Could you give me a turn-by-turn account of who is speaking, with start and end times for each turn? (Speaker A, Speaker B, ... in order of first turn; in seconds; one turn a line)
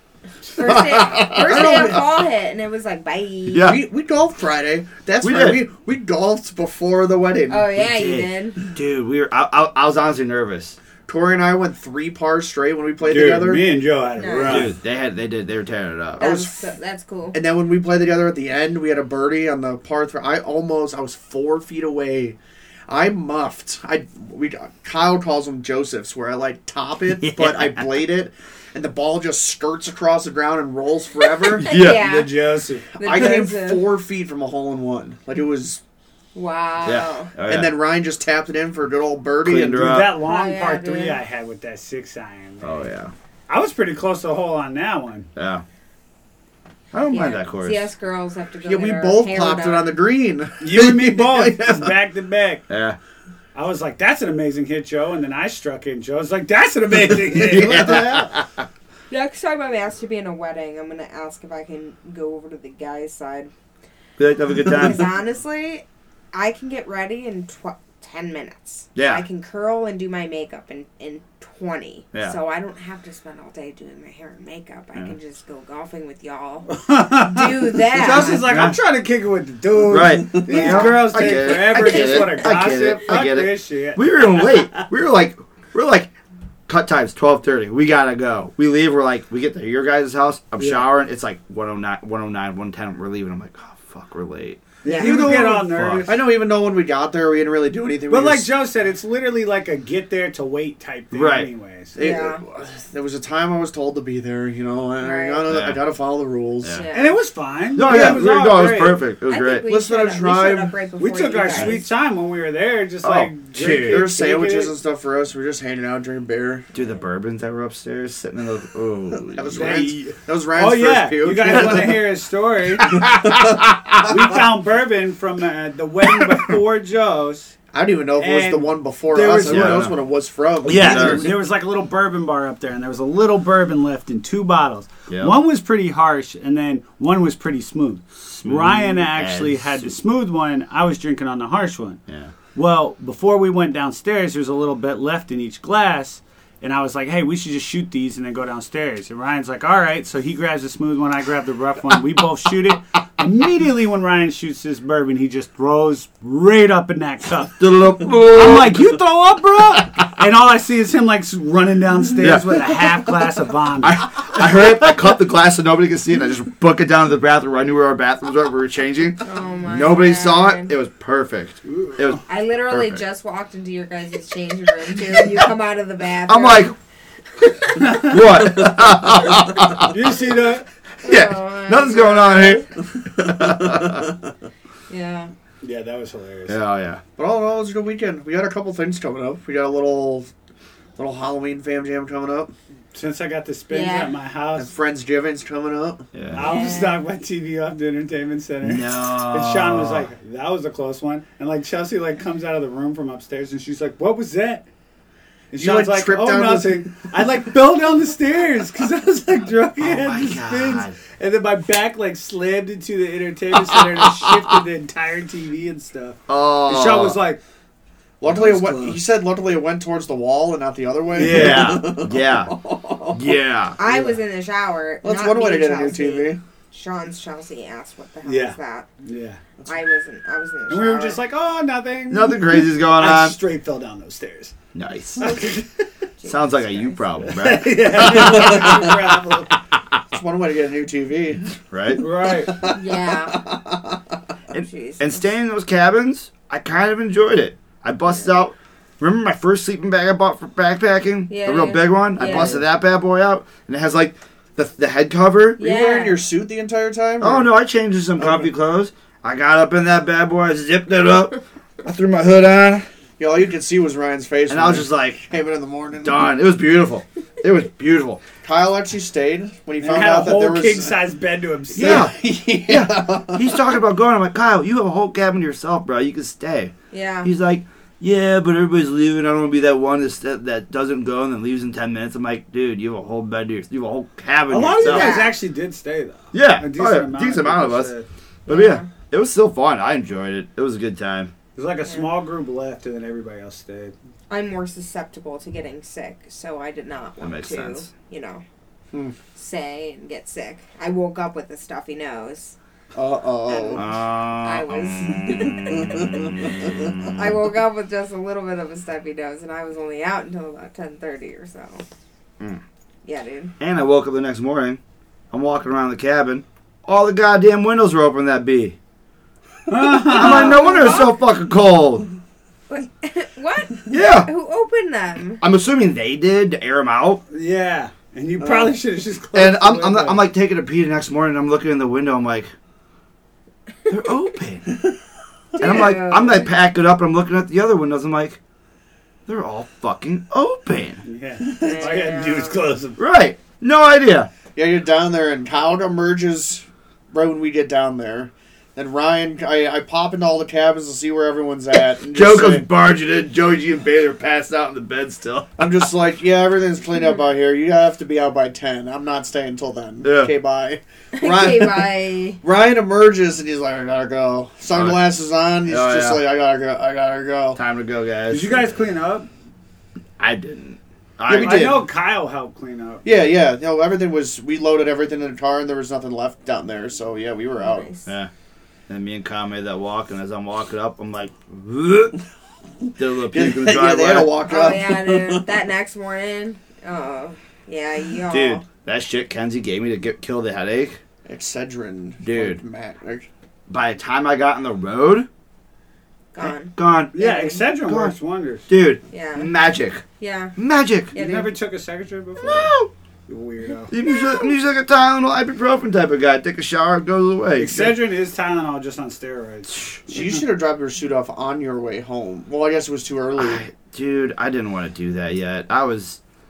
Speaker A: 0.5-3.7
Speaker B: 0.6-2.0
Speaker C: 0.9-2.1
Speaker B: 3.5-3.8
Speaker C: 3.6-7.7
Speaker B: 5.2-5.6
Speaker A: 7.5-8.6
Speaker B: 7.8-10.8
Speaker C: 11.1-13.6
Speaker D: 13.0-14.7
Speaker A: 14.2-14.7
Speaker B: 14.4-16.3
Speaker C: 16.2-16.7
Speaker A: 16.2-17.4
Speaker C: 17.3-22.4
Speaker C: 22.9-31.7
Speaker B: 27.1-28.0
Speaker A: 31.5-32.3
Speaker B: 31.6-32.0
Speaker D: 31.8-32.9
Speaker C: 32.9-35.8
Speaker A: 32.9-33.9
Speaker A: 36.3-37.3
Speaker B: 36.8-37.7
Speaker C: 37.4-40.0
Speaker B: 39.4-40.2
Speaker D: 39.7-42.8
Speaker A: 40.2-41.2
Speaker B: 42.6-43.1
Speaker D: 43.5-45.3
Speaker B: 45.4-45.6
Speaker B: 46.9-47.9
Speaker A: 47.1-50.0
Speaker C: 48.6-51.9
Speaker D: 50.6-52.6
Speaker B: 52.7-53.0
Speaker D: 53.5-58.0
Speaker B: 57.3-58.6
Speaker C: 57.4-58.3
Speaker A: 59.1-63.5
Speaker B: 64.2-65.1
Speaker A: 64.6-78.6
Speaker B: 68.9-69.2
Speaker D: 76.7-84.8
Speaker B: 78.2-78.8
Speaker B: 79.9-86.1
Speaker C: 80.3-81.2
Speaker A: 81.5-82.4
Speaker B: 86.7-96.1
Speaker D: 90.6-90.9
Speaker A: 94.8-95.2
Speaker D: 94.8-96.2
Speaker C: 94.9-98.5
Speaker D: 98.1-101.9
Speaker B: 101.1-101.5
Speaker C: 102.0-106.8
Speaker A: 102.0-102.4
Speaker A: 105.0-105.4
Speaker B: 105.5-105.8
Speaker A: 106.8-107.2
Speaker D: 106.9-109.0
Speaker B: 107.7-109.7
Speaker C: 107.8-108.3
Speaker A: 109.3-111.9
Speaker C: 109.6-110.7
Speaker D: 111.0-114.7
Speaker B: 113.0-114.1
Speaker C: 113.5-116.7
Speaker B: 116.7-119.8
Speaker C: 119.3-122.0
Speaker D: 119.5-123.1
Speaker B: 122.8-124.2
Speaker D: 124.0-127.5
Speaker C: 127.7-131.3
Speaker D: 128.2-129.9
Speaker B: 129.3-129.9
Speaker D: 130.6-142.0
Speaker B: 130.7-131.3
Speaker B: 135.1-135.3
Speaker B: 138.4-139.9
Speaker B: 142.1-142.3
Speaker D: 142.5-164.2
Speaker B: 157.6-158.8
Speaker B: 162.2-162.6
Speaker B: 163.8-173.0
Speaker A: 169.2-170.7
Speaker D: 171.6-172.2
Speaker A: 172.3-176.7
Speaker B: 176.3-176.7
Speaker A: 177.4-177.9
Speaker D: 177.8-178.6
Speaker B: 178.0-180.0
Speaker D: 179.8-180.6
Speaker A: 181.0-182.7
Speaker B: 181.0-184.1
Speaker C: 183.3-184.1
Speaker A: 184.9-185.3
Speaker D: 185.6-186.6
Speaker B: 186.5-187.0
Speaker C: 187.2-190.3
Speaker C: 191.0-192.5
Speaker D: 192.9-194.7
Speaker A: 193.7-194.1
Speaker C: 194.6-196.1
Speaker B: 196.1-196.5
Speaker D: 196.3-204.6
Speaker A: 196.4-197.0
Speaker B: 198.6-200.1
Speaker D: 205.5-217.4
Speaker C: 205.6-206.9
Speaker B: 209.8-211.0
Speaker B: 213.7-214.3
Speaker B: 216.3-217.2
Speaker C: 218.2-223.3
Speaker D: 218.2-219.0
Speaker D: 221.1-222.0
Speaker B: 221.2-222.5
Speaker B: 223.1-223.8
Speaker A: 223.8-228.9
Speaker C: 223.8-224.2
Speaker C: 225.0-226.4
Speaker D: 228.3-229.4
Speaker A: 229.7-231.2
Speaker D: 230.7-234.5
Speaker B: 232.1-233.4
Speaker B: 234.7-235.4
Speaker D: 235.2-235.7
Speaker A: 236.2-237.0
Speaker B: 236.3-238.9
Speaker D: 237.2-239.5
Speaker C: 238.0-239.0
Speaker C: 240.1-241.5
Speaker B: 241.7-242.1
Speaker D: 242.0-242.6
Speaker C: 242.2-244.0
Speaker A: 242.7-243.4
Speaker B: 244.5-255.6
Speaker A: 244.6-245.3
Speaker A: 251.3-252.6
Speaker C: 255.6-257.5
Speaker A: 255.6-256.2
Speaker B: 257.2-262.9
Speaker C: 258.2-258.5
Speaker C: 263.2-266.3
Speaker B: 264.5-265.2
Speaker B: 266.0-268.2
Speaker C: 268.4-271.0
Speaker D: 269.8-272.1
Speaker B: 271.7-272.1
Speaker C: 271.7-273.5
Speaker B: 272.7-285.2
Speaker A: 276.9-277.3
Speaker D: 284.5-288.1
Speaker A: 284.8-285.4
Speaker B: 286.3-287.9
Speaker B: 288.5-291.3
Speaker A: 288.5-288.9
Speaker D: 291.5-293.9
Speaker A: 294.3-298.4
Speaker B: 297.2-297.9
Speaker A: 299.4-302.6
Speaker C: 302.9-303.9
Speaker A: 303.4-311.8
Speaker B: 303.8-307.4
Speaker C: 305.7-307.0
Speaker A: 313.0-313.5
Speaker B: 313.6-318.8
Speaker D: 319.7-321.1
Speaker B: 320.0-322.1
Speaker A: 320.2-321.1
Speaker A: 322.7-325.4
Speaker B: 323.9-324.3
Speaker B: 325.4-327.2
Speaker D: 327.3-330.2
Speaker C: 328.4-328.7
Speaker B: 329.3-332.5
Speaker B: 333.9-334.7
Speaker A: 335.5-336.5
Speaker B: 335.6-338.4
Speaker B: 339.3-341.0
Speaker D: 341.0-343.0
Speaker A: 341.6-342.6
Speaker B: 343.0-344.3
Speaker C: 344.5-352.7
Speaker B: 352.1-355.9
Speaker C: 355.6-361.9
Speaker B: 360.0-360.3
Speaker A: 361.1-362.4
Speaker C: 362.4-367.6
Speaker B: 364.7-365.0
Speaker B: 365.6-366.2
Speaker B: 367.5-368.6
Speaker D: 368.3-369.3
Speaker B: 370.2-371.8
Speaker D: 371.3-373.1
Speaker C: 371.3-371.8
Speaker C: 373.0-377.9
Speaker A: 377.6-378.1
Speaker B: 378.1-378.3
Speaker B: 378.9-382.2
Speaker B: 383.0-384.8
Speaker C: 383.3-385.5
Speaker A: 384.4-388.6
Speaker B: 388.3-391.0
Speaker C: 391.2-393.3
Speaker B: 392.2-392.6
Speaker B: 393.7-395.3
Speaker A: 396.3-397.6
Speaker B: 396.4-397.1
Speaker D: 397.1-398.6
Speaker B: 397.8-398.1
Speaker B: 398.7-400.0
Speaker A: 399.1-399.5
Speaker A: 400.2-400.6
Speaker B: 400.6-401.1
Speaker A: 401.1-401.5
Speaker D: 401.1-402.7
Speaker B: 402.4-402.9
Speaker D: 403.3-403.9
Speaker B: 403.9-407.9
Speaker D: 407.6-410.2
Speaker B: 409.7-410.0
Speaker C: 410.1-413.6
Speaker B: 413.4-416.2